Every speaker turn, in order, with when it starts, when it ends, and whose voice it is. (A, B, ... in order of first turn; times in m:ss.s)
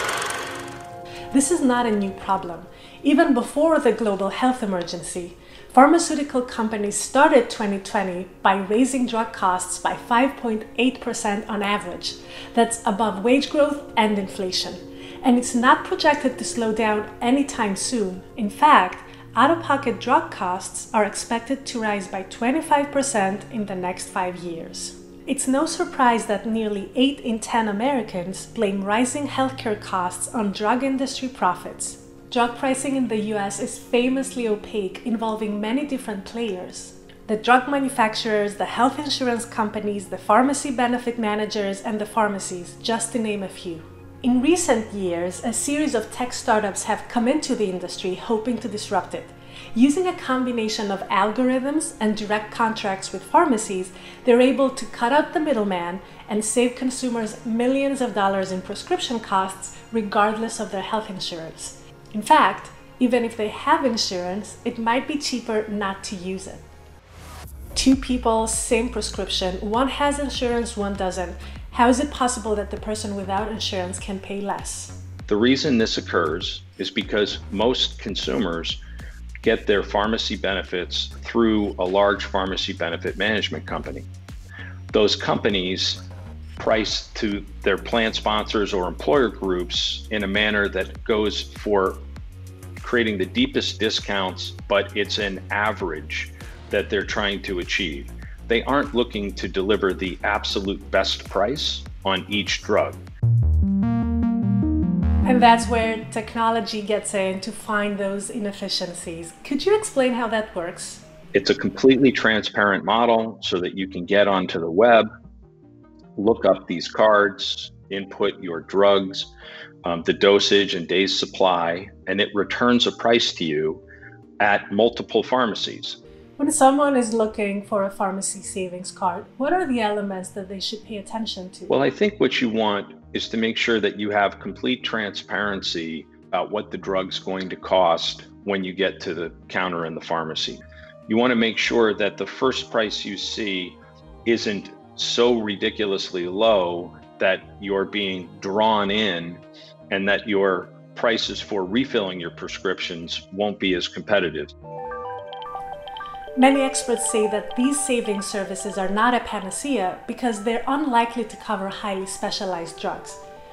0:01.3-1:06.6 A
1:07.8-1:15.0 A
1:15.3-1:18.8 B
1:19.4-1:24.1 B
1:24.9-1:26.0 B
1:26.6-1:32.0 B
1:32.8-1:43.0 B
1:45.2-1:51.0 A
1:51.3-1:55.1 B
1:56.2-1:59.3 B
1:59.8-2:03.8 B
2:04.4-2:06.0 B
2:06.4-2:11.8 A
2:11.7-2:34.5 B
2:36.4-2:43.2 A